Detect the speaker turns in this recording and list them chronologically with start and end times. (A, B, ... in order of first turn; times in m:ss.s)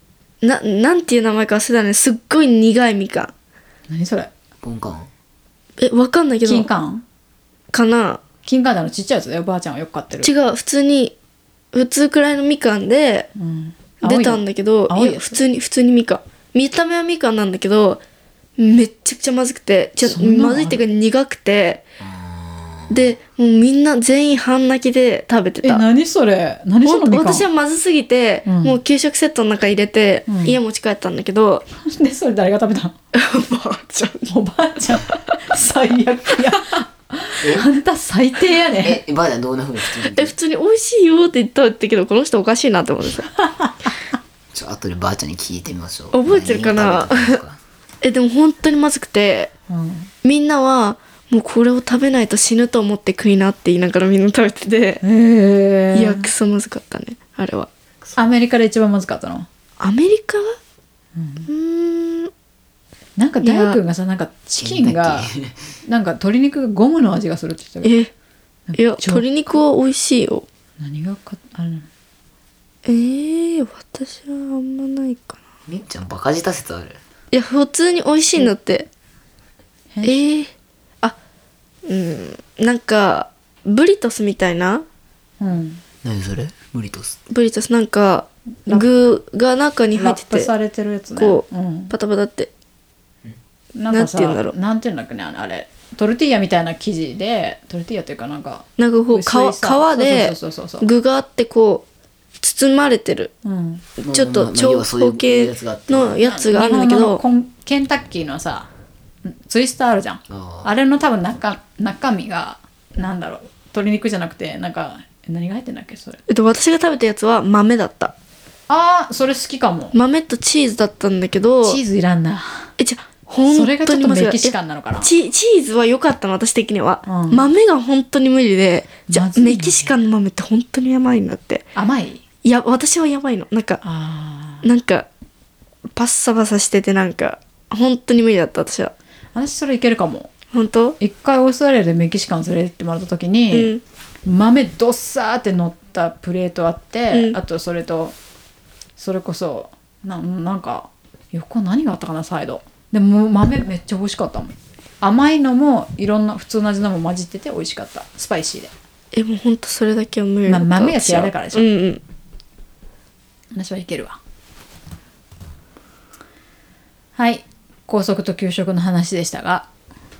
0:00.4-0:03.3 A
0:03.9-0:04.3 B
0:04.6-0:05.1 C
0:05.8-0:06.7 A
0:06.4-0:07.0 B
0:07.7-0:08.2 A
0:08.4-0:10.3 B
0:10.2-0:11.2 A
0:11.7-0:13.3 A
0:13.4-0:15.4 B
0:14.0-0:18.0 A
0:18.6-0:21.8 A
0:20.0-0:20.8 B
0:22.0-0:23.1 C
0:22.9-0:25.8 A
0:25.6-0:27.5 B
0:26.8-0:31.7 A
0:28.5-0:28.8 B
0:30.3-0:30.6 B
0:31.8-0:32.9 B
0:33.1-0:34.3 A
0:34.3-0:39.0 B
0:37.4-0:37.7 C
0:38.8-0:40.4 C
0:40.0-0:43.3 A
0:43.6-0:43.9 B
0:44.5-0:47.6 C
0:46.1-0:47.4 A
0:48.0-0:49.5 A
0:49.7-0:50.1 B
0:50.2-0:55.0 A
0:55.0-0:56.3 B
0:55.9-0:57.7 A
0:58.2-0:59.5 B
0:59.8-1:00.6 A
1:01.2-1:01.5 B
1:01.5-1:02.3 A
1:03.2-1:05.3 B
1:03.4-1:03.8 A
1:04.6-1:05.6 C
1:05.8-1:07.9 B
1:07.8-1:08.1 A
1:08.7-1:09.6 B
1:08.8-1:10.5 A
1:10.8-1:11.9 B
1:12.8-1:15.4 A
1:15.7-1:17.0 C
1:17.3-1:18.9 A
1:19.9-1:20.2 B
1:20.0-1:20.5 A
1:21.9-1:24.8 A
1:25.4-1:25.8 B
1:26.0-1:27.2 C
1:27.3-1:30.5 A
1:30.0-1:31.9 B
1:31.2-1:32.5 A
1:33.8-1:40.9 B
1:33.9-1:34.5 A
1:38.8-1:41.9 A
1:42.4-1:43.3 A
1:43.4-1:43.8 B
1:44.0-1:47.2 A
1:44.0-1:46.2 C
1:46.3-1:48.7 B
1:49.2-1:56.2 B
1:50.3-1:50.7 C
1:56.3-1:58.1 A
1:58.7-2:00.0 B
1:59.9-2:01.8 A
2:01.6-2:02.7 B
2:02.8-2:11.7 A
2:03.4-2:05.1 B
2:07.1-2:07.4 B
2:09.1-2:09.9 B
2:11.8-2:12.2 B
2:12.4-2:13.8 A
2:13.8-2:14.7 B
2:14.6-2:15.1 A
2:16.0-2:18.9 A
2:19.4-2:20.3 B
2:20.5-2:21.0 A
2:21.0-2:23.7 B
2:23.5-2:23.8 A
2:24.2-2:28.2 B
2:27.1-2:27.4 A
2:29.0-2:38.7 B
2:39.1-2:42.0 A
2:40.5-2:41.7 B
2:43.5-2:44.2 B
2:47.2-2:49.7 B